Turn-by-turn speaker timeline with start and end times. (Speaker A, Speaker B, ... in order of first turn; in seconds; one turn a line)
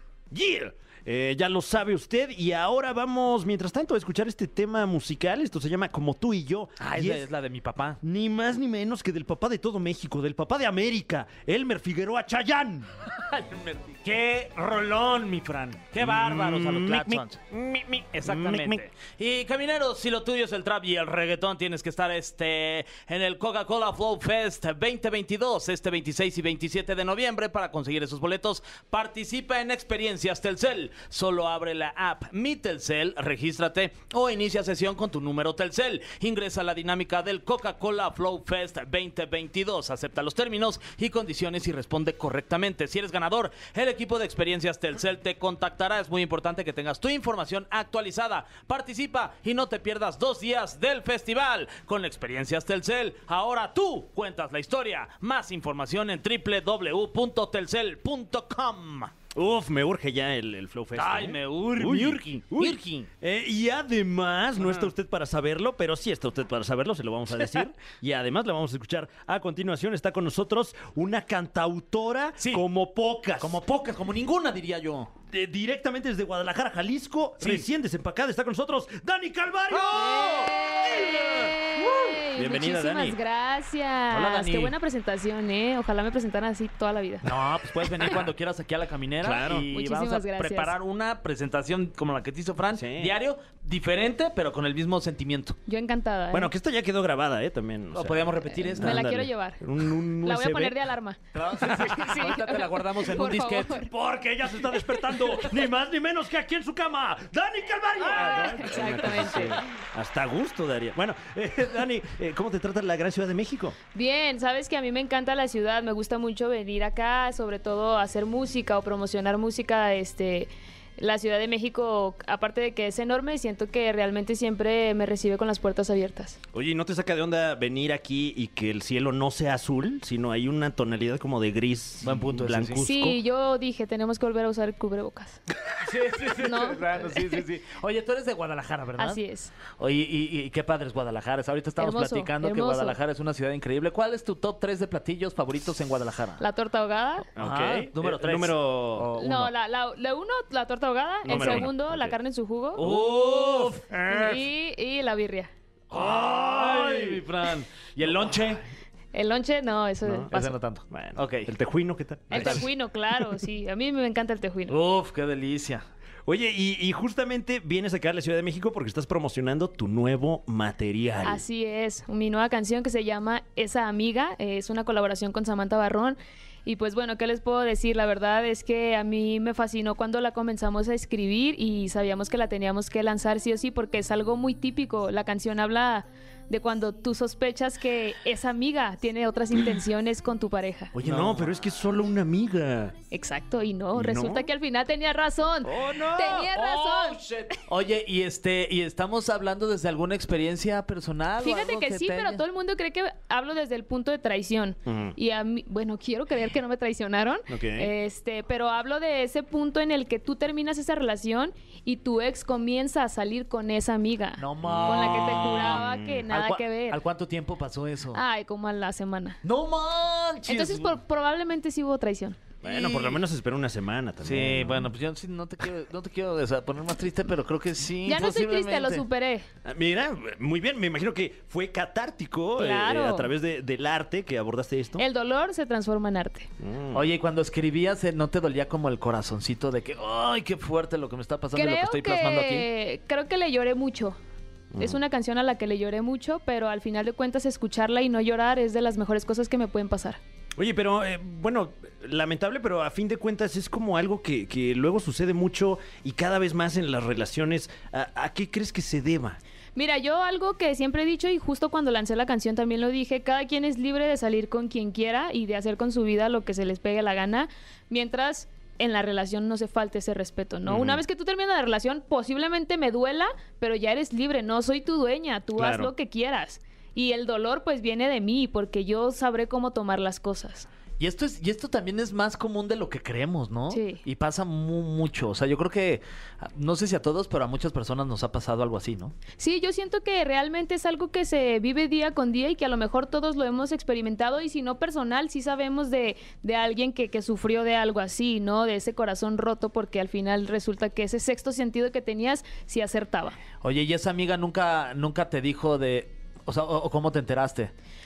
Speaker A: 0.3-7.3
Speaker B: 6.8-8.0
Speaker A: 8.0-12.9
Speaker B: 13.1-17.4
Speaker A: 16.0-18.8
Speaker B: 18.1-59.1
Speaker A: 59.3-73.6
Speaker B: 60.9-63.1
Speaker B: 64.6-64.9
Speaker B: 72.4-72.6
Speaker B: 73.4-75.1
Speaker A: 75.3-83.2
Speaker B: 77.4-77.7
Speaker B: 79.7-80.3
Speaker C: 79.9-87.2
Speaker B: 81.8-82.1
Speaker B: 84.1-84.7
Speaker B: 87.2-95.6
Speaker A: 89.2-89.7
Speaker C: 89.7-90.7
Speaker A: 92.7-93.2
Speaker C: 95.7-96.5
Speaker A: 96.3-100.8
Speaker B: 97.9-99.1
Speaker C: 98.5-99.6
Speaker C: 100.2-103.9
Speaker B: 101.3-103.8
Speaker A: 101.6-102.2
Speaker A: 103.7-113.8
Speaker C: 108.0-109.6
Speaker B: 108.3-108.7
Speaker C: 113.9-126.4
Speaker A: 126.5-133.2
Speaker B: 132.0-132.9
Speaker C: 132.8-135.4
Speaker B: 135.8-139.2
Speaker C: 136.3-137.4
Speaker C: 139.0-139.5
Speaker B: 139.8-146.4
Speaker C: 141.8-143.0
Speaker C: 146.4-147.3
Speaker A: 147.3-149.1
Speaker B: 147.4-149.5
Speaker C: 149.1-152.8
Speaker A: 151.2-152.2
Speaker B: 151.3-151.7
Speaker B: 152.8-154.4
Speaker A: 152.8-154.4
Speaker C: 154.1-155.5
Speaker B: 155.9-158.6
Speaker A: 155.9-157.2
Speaker A: 158.0-158.5
Speaker C: 159.1-160.5
Speaker A: 160.0-160.3
Speaker B: 160.3-161.5
Speaker A: 160.9-162.7
Speaker B: 162.3-162.7
Speaker C: 162.3-164.8
Speaker B: 164.7-165.8
Speaker A: 166.2-171.4
Speaker C: 171.2-190.9
Speaker A: 190.9-192.9
Speaker B: 191.0-191.5
Speaker C: 193.1-197.2
Speaker A: 193.9-194.5
Speaker A: 195.6-196.5
Speaker B: 196.3-202.4
Speaker C: 201.4-217.0
Speaker A: 204.8-205.1
Speaker A: 207.5-207.9
Speaker B: 214.4-218.2
Speaker A: 214.6-216.3
Speaker C: 218.1-219.4
Speaker B: 219.4-220.9
Speaker C: 220.4-222.6
Speaker A: 222.6-224.9
Speaker B: 222.7-223.2
Speaker B: 224.2-229.0
Speaker C: 228.0-229.4
Speaker A: 229.6-235.0
Speaker C: 232.6-233.3
Speaker C: 235.0-236.5
Speaker A: 236.6-237.1
Speaker B: 236.9-242.7
Speaker C: 241.5-244.2
Speaker A: 244.7-245.0
Speaker C: 244.8-250.2
Speaker A: 250.6-259.4
Speaker C: 259.7-280.7
Speaker A: 270.6-271.0
Speaker A: 275.5-275.9
Speaker B: 281.0-289.1
Speaker C: 283.7-284.0
Speaker C: 289.4-303.4
Speaker B: 303.6-307.7